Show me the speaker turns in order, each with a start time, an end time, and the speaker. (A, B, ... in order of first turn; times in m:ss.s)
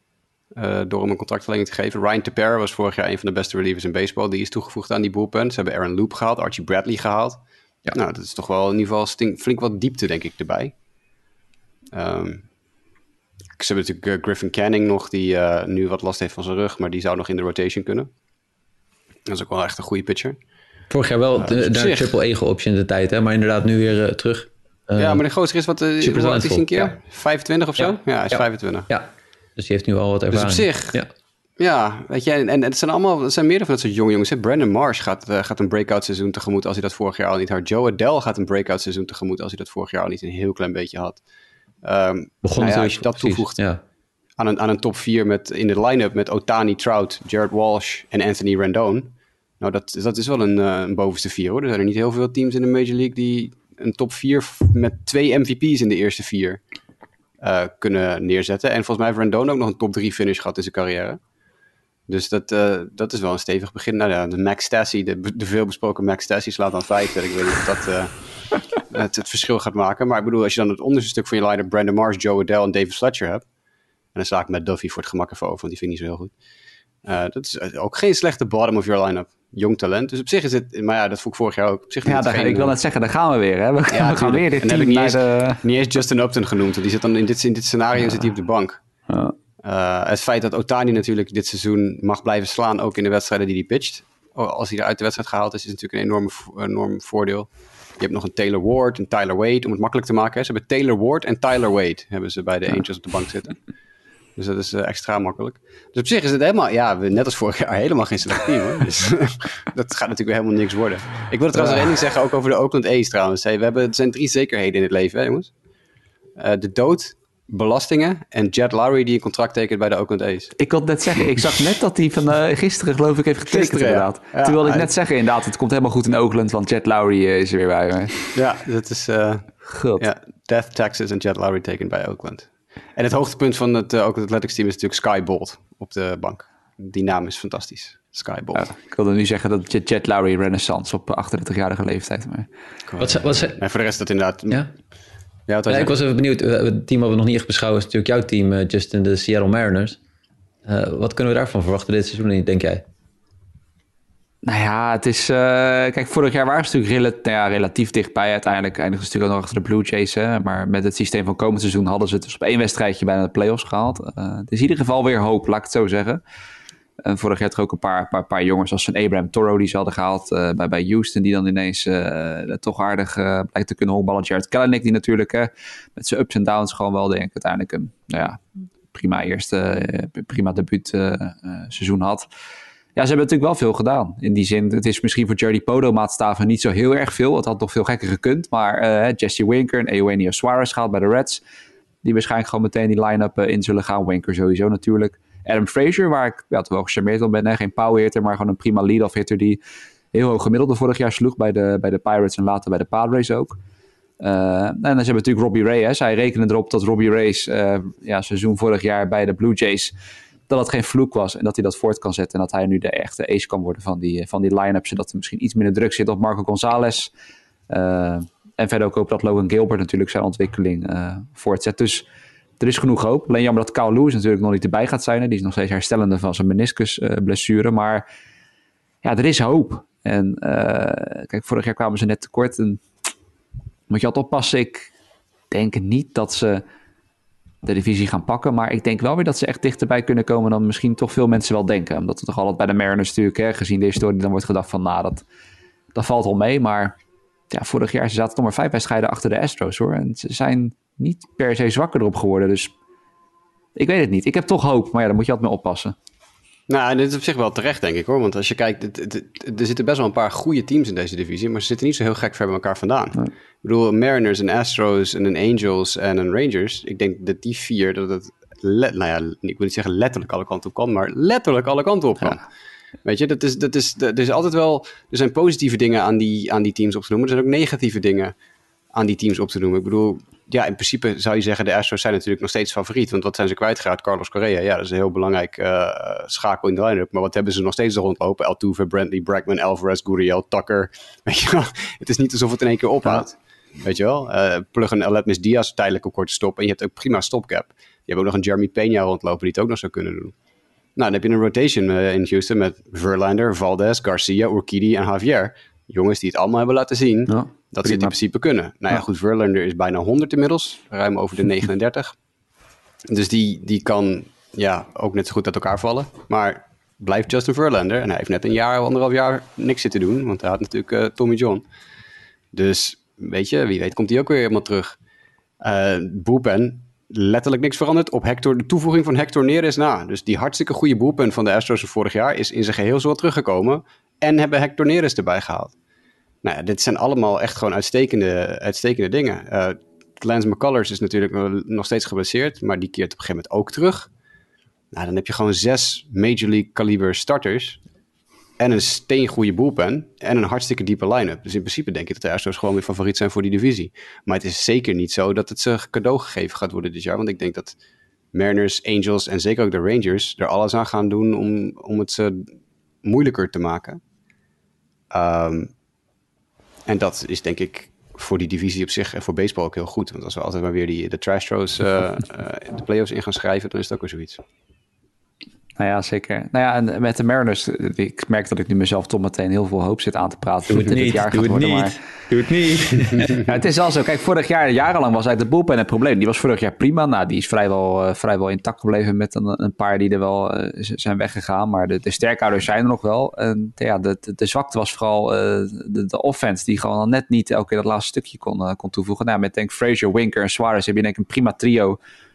0:00.6-0:07.4 A
0:07.9-0:10.7 A
0:11.9-0:12.4 A
0:13.6-0:18.1 A
0:19.3-0:20.4 A
0:20.9-0:25.2 B
0:21.4-0:22.1 A
0:25.0-0:28.9 A
0:26.0-0:26.9 B
0:27.8-0:31.1 B
0:30.3-0:31.0 A
0:31.6-0:41.2 A
0:41.8-0:43.6 A
0:42.4-0:43.8 B
0:44.4-0:56.6 A
0:57.4-1:01.2 A
1:02.1-1:13.5 A
1:14.2-1:16.3 A
1:17.0-1:22.8 A
1:22.0-1:25.6 C
1:23.9-1:28.8 A
1:29.1-1:29.4 C
1:29.6-1:43.6 A
1:44.4-1:55.5 A
1:56.4-2:00.6 A
2:00.6-2:08.3 C
2:03.5-2:04.9 A
2:08.4-2:18.7 A
2:09.6-2:10.1 C
2:18.6-2:22.5 C
2:22.9-2:24.6 A
2:23.0-2:23.6 B
2:25.5-2:26.0 A
2:25.7-2:30.0 B
2:30.7-2:32.8 B
2:34.4-2:46.2 C
2:47.0-3:02.3 C
3:03.0-3:11.4 C
3:12.0-3:19.6 C
3:20.1-3:23.6 C
3:24.2-3:29.9 C
3:30.5-3:37.1 C
3:37.7-3:42.1 C
3:42.6-3:48.0 C
3:49.0-3:52.8 C
3:53.9-3:54.9 C
3:55.5-3:56.6 C
3:57.6-4:05.2 C
4:06.0-4:07.0 C
4:07.5-4:12.7 C
4:13.8-4:16.0 C
4:16.7-4:32.4 A
4:33.0-4:38.3 A
4:38.9-5:00.3 A
5:01.0-5:12.2 A
5:07.3-5:08.1 C
5:13.1-5:21.6 A
5:22.5-5:25.0 A
5:25.6-5:35.7 A
5:36.4-5:44.1 A
5:44.9-5:47.8 A
5:48.6-5:57.8 A
5:58.3-6:02.5 A
6:03.0-6:04.0 A
6:05.1-6:05.7 A
6:06.9-6:14.4 A
6:15.8-6:22.0 C
6:20.7-6:23.4 B
6:23.2-6:42.0 C